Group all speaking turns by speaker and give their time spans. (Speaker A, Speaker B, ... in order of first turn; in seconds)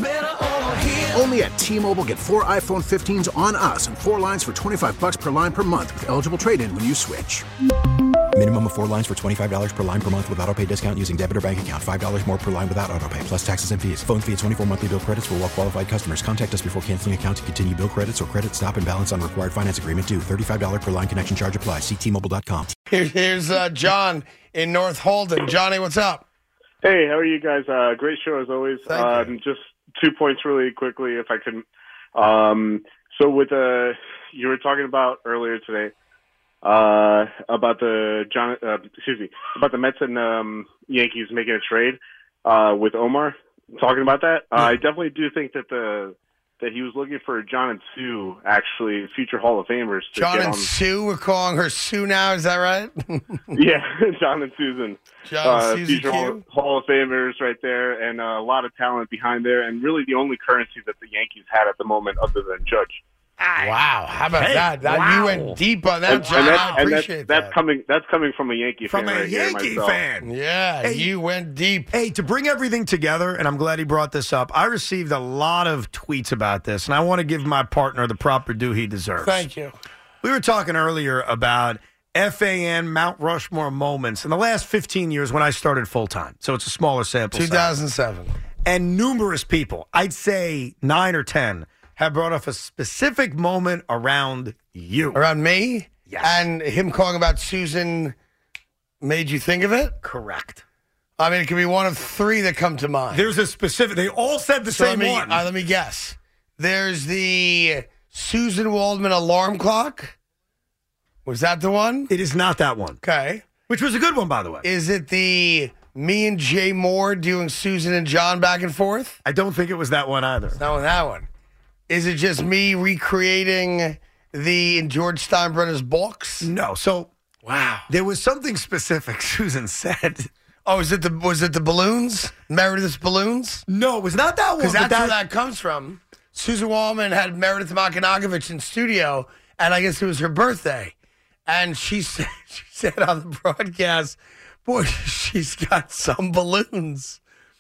Speaker A: 1.1-7.5
Speaker B: 8.3-22.8
Speaker C: 22.9-26.3, 28.9-29.3, 50.1-53.5, 55.3-56.4, 63.6-67.5, 70.2-71.9, 79.2-79.7, 87.3-88.3, 95.1-98.2, 99.0-100.0, 101.2-103.3, 104.7-110.2, 111.2-112.1, 113.0-113.5, 114.6-119.2, 120.5-121.3, 121.9-126.5, 127.4-127.9, 130.7-133.6, 134.6-140.9, 141.5-147.2
Speaker D: 26.8-31.6, 32.2-35.9, 36.6-50.7, 53.6-63.0, 66.1-70.0
Speaker E: 63.4-63.8, 64.3-66.8, 68.9-70.3, 70.8-71.2, 71.9-79.5, 80.2-87.7, 88.7-95.2, 96.1-96.5, 100.0-100.6, 103.1-105.5, 112.1-113.0, 113.7-114.7, 119.2-120.6, 126.4-127.1, 127.9-130.3, 133.7-135.2